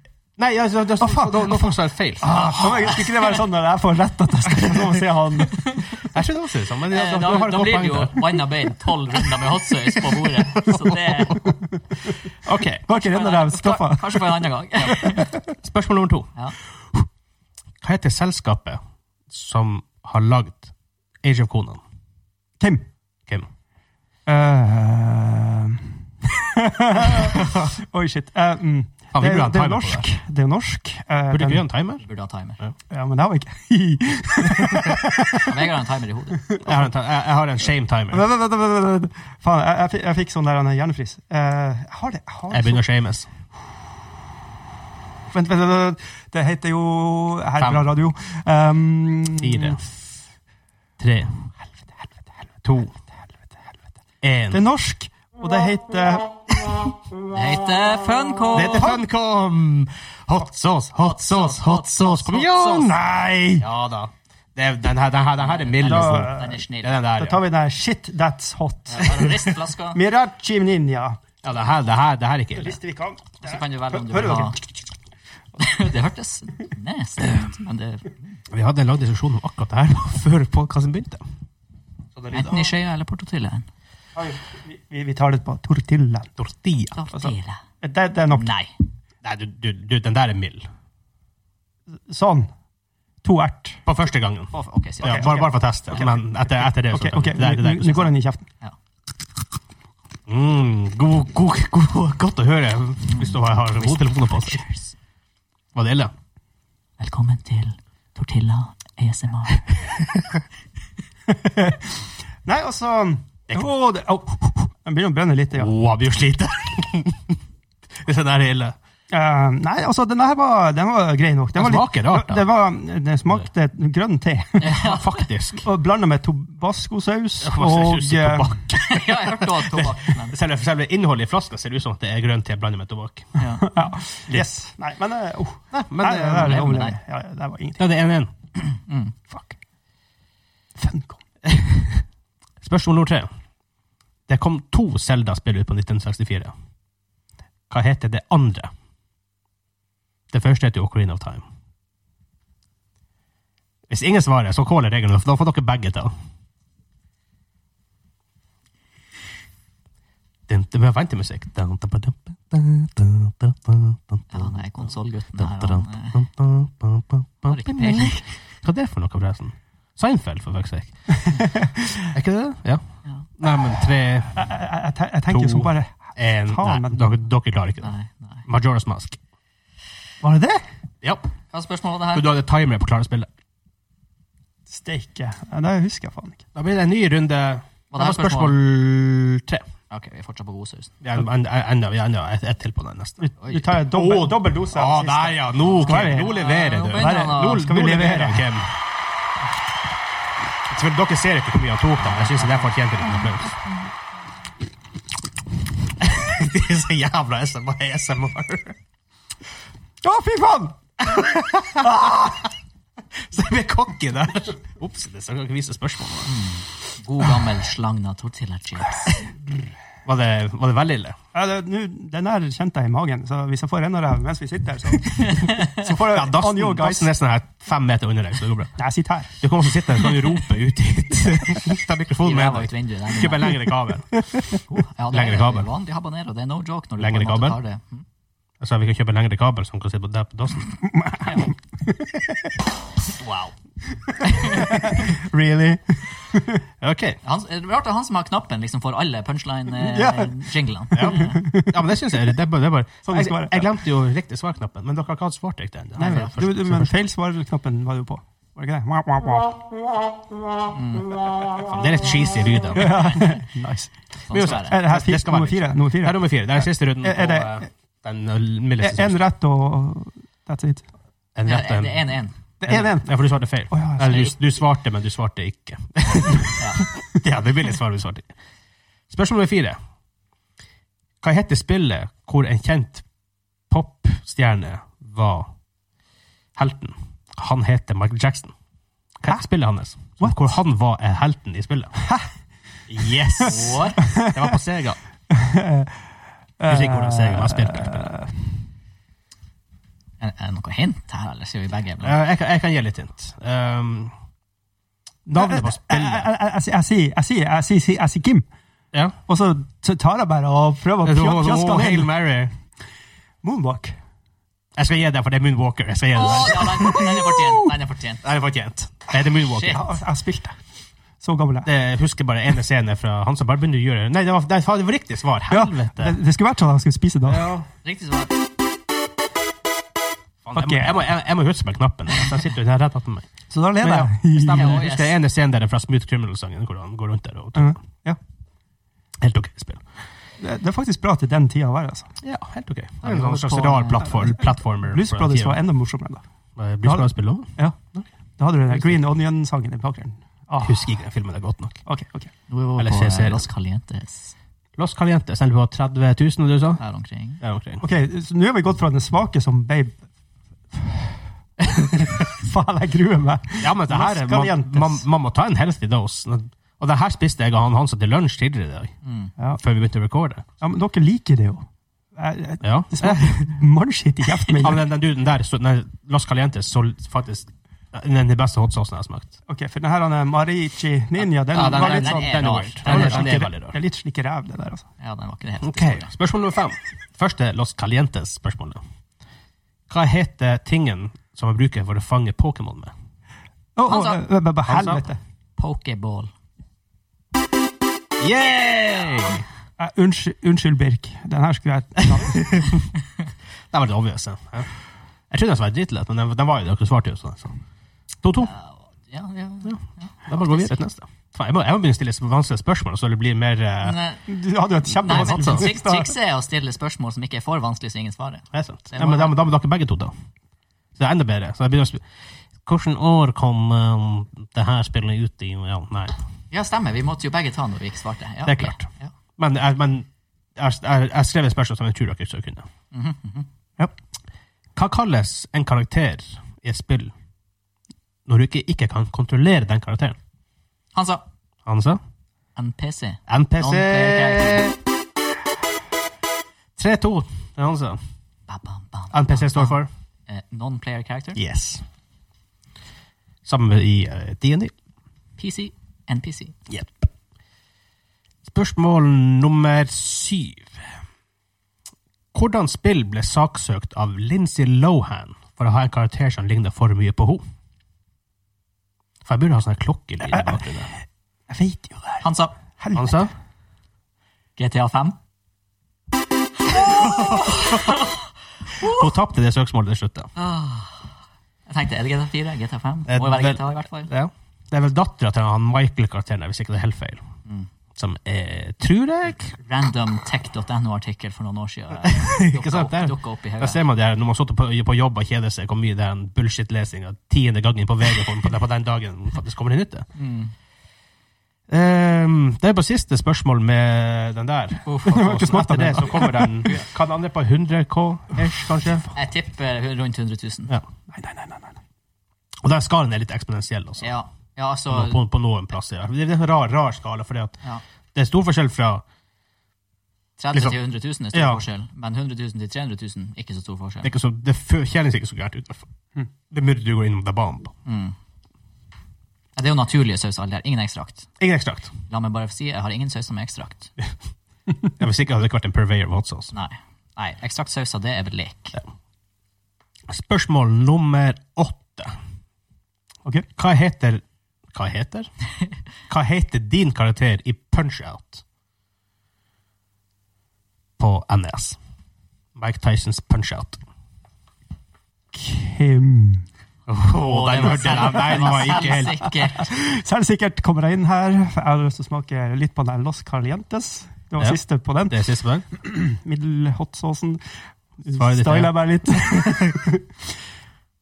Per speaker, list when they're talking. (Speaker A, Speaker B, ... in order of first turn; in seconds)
Speaker A: 0.4-3.0, 6.0-8.5, 9.1-11.6, 12.4-12.8, 15.6-16.3, 17.8-20.7, 21.2-21.8, 27.0-27.7, 29.1-30.1, 31.3-32.0, 34.6-35.0, 36.6-38.2, 42.5-43.3, 47.6-47.9, 49.4-49.8, 51.0-51.3, 52.6-52.9, 54.2-54.6, 58.5-63.0, 63.6-67.4, 69.0-69.3, 71.4-72.8, 78.5-81.2, 82.2-82.7, 86.4-87.0, 89.2-90.7, 93.9-98.1, 100.3-104.6, 105.8-106.1, 115.6-117.4, 118.0-118.8, 121.5-122.5, 124.7-125.7, 127.4-133.4, 135.7-136.7, 137.8-138.3, 141.4-142.0, 142.6-143.3, 144.3-146.5, 147.7-148.7, 150.3-151.4, 153.9-156.1, 160.5-164.8, 165.4-171.5, 172.1-172.8, 173.4-174.4, 175.3-177.9, 178.5-179.2, 181.0-181.3, 182.1-183.3, 186.6-189.7, 191.0-198.7, 200.7-203.6, 206.0-208.8, 211.0-212.3, 213.2-216.3, 220.1-221.2, 226.0-228.8, 229.4-234.2, 235.1-235.7, 237.0-237.6, 238.6-240.7, 246.8-247.2, 250.9-256.9, 261.5-263.1, 264.3-269.2, 271.4-272.1, 272.6-278.3, 279.1-279.8, 281.2-283.1, 283.7-285.5, 286.6-288.5, 289.2-292.0, 292.9-295.0, 296.7-298.1, 302.0-304.1, 305.3-306.3, 311.0-312.5, 314.8-317.0, 318.2-319.8, 321.6-326.2, 327.3-327.7, 330.4-333.3, 333.8-337.8, 339.2-339.9, 342.2-345.6, 346.6-348.1, 348.7-349.0, 350.6-351.8, 352.8-353.4, 354.8-356.8, 357.4-357.8, 363.6-368.9, 369.6-370.4, 372.6-373.5, 374.5-379.3, 381.5-383.8, 385.6-388.8, 389.9-392.9, 394.7-395.0, 398.2-399.4, 402.1-402.9, 403.7-404.7, 405.3-407.6, 408.2-408.5, 409.6-414.0, 415.0-415.7, 418.5-420.1, 421.0-422.0, 422.6-426.2, 428.4-428.9, 429.4-432.7, 434.8-437.1, 438.3-440.2, 441.7-442.0, 443.3-444.8, 446.8-448.0, 449.1-449.9, 451.4-451.8, 453.4-454.7, 456.7-457.1, 458.4-460.9, 462.3-467.4, 469.2-470.9, 472.9-473.3, 476.9-477.6, 478.8-480.3, 483.1-487.2, 488.0-489.6, 492.1-500.1, 501.7-509.1, 512.6-514.1, 514.9-517.6, 518.1-519.0, 520.5-520.8, 521.3-521.6, 524.0-525.9, 526.5-527.7, 531.4-531.9, 535.0-536.5, 540.1-542.2, 543.6-545.3, 546.1-548.4, 551.0-551.8, 552.5-553.8, 556.9-559.3, 564.4-565.7, 568.0-569.8
Speaker B: 1.0-1.7, 2.2-5.7, 12.9-15.4, 22.6-22.9, 24.3-31.7, 32.9-35.6, 36.5-36.8, 38.1-42.8, 45.3-49.9, 54.5-56.8, 62.6-63.7, 65.8-66.6, 67.2-71.2, 72.5-74.6, 84.2-86.3, 87.1-88.5, 92.1-92.5, 93.2-93.8, 95.0-98.5, 111.3-115.7, 119.1-124.8, 125.6-128.6, 133.6-137.8, 139.3-139.6, 140.8-141.2, 171.2-172.1, 174.3-177.1, 180.2-180.7, 184.7-186.4, 193.2-198.5, 210.0-210.8, 211.8-212.4, 221.3-227.1, 228.8-229.3, 240.9-242.5, 244.2-246.6, 249.8-250.4, 250.9-252.1, 253.0-253.7, 256.0-259.6, 262.8-263.9, 264.5-267.7, 268.8-270.9, 272.6-273.1, 273.7-274.3, 290.2-290.5, 293.0-294.5, 295.3-296.0, 296.6-298.5, 305.3-308.5, 309.3-312.1, 313.4-314.0, 316.8-317.7, 319.7-320.6, 321.2-321.7, 325.5-327.5, 330.5-331.0, 333.5-334.8, 337.6-338.2, 340.4-342.1, 344.2-346.2, 346.8-347.8, 348.4-350.9, 351.9-352.3, 357.8-360.0, 360.7-365.1, 370.6-374.8, 379.5-384.9, 393.8-395.2, 399.8-402.7, 414.3-416.2, 471.5-472.2, 472.8-473.3, 505.0-506.7, 511.1-511.8, 555.3-556.5, 559.5-567.4, 568.0-570.0
Speaker C: 2.3-3.2, 6.9-11.4, 12.9-15.3, 32.0-32.6, 35.4-36.5, 57.3-59.0, 61.0-62.8, 65.4-67.0, 68.9-70.0, 73.4-74.6, 75.6-78.4, 82.3-83.7, 87.0-87.6, 88.3-88.7, 94.5-95.6, 103.1-104.9, 107.0-109.7, 124.6-125.1, 128.8-130.3, 133.4-133.7, 136.4-137.0, 138.7-139.2, 164.3-166.2, 167.5-168.3, 177.8-178.5, 181.5-182.3, 187.9-188.6, 189.9-190.9, 195.7-197.6, 202.1-202.7, 216.2-219.2, 225.2-225.8, 232.2-233.5, 234.7-238.1, 243.2-243.5, 244.3-244.7, 247.2-251.4, 256.0-256.3, 260.7-261.1, 264.3-264.8, 271.5-272.4, 276.6-276.8, 293.5-294.0, 300.2-302.2, 316.1-318.2, 319.5-319.8, 327.8-328.3, 334.5-335.1, 343.0-344.2, 352.5-354.3, 356.8-357.4, 369.0-369.3, 381.2-383.3, 385.0-386.1, 393.9-394.2, 395.6-396.3, 408.4-410.8, 413.8-414.2, 415.0-419.4, 426.5-429.1, 432.9-433.5, 440.9-441.2, 442.6-444.6, 448.5-451.4, 455.4-456.6, 472.2-472.5, 474.6-475.2, 476.8-478.2, 478.8-479.0, 480.4-481.1, 481.7-484.1, 489.6-493.8, 500.1-500.5, 509.1-510.7, 514.0-515.2, 520.4-524.1, 527.9-528.2, 529.6-531.3, 532.1-533.9, 536.5-538.8, 557.2-559.7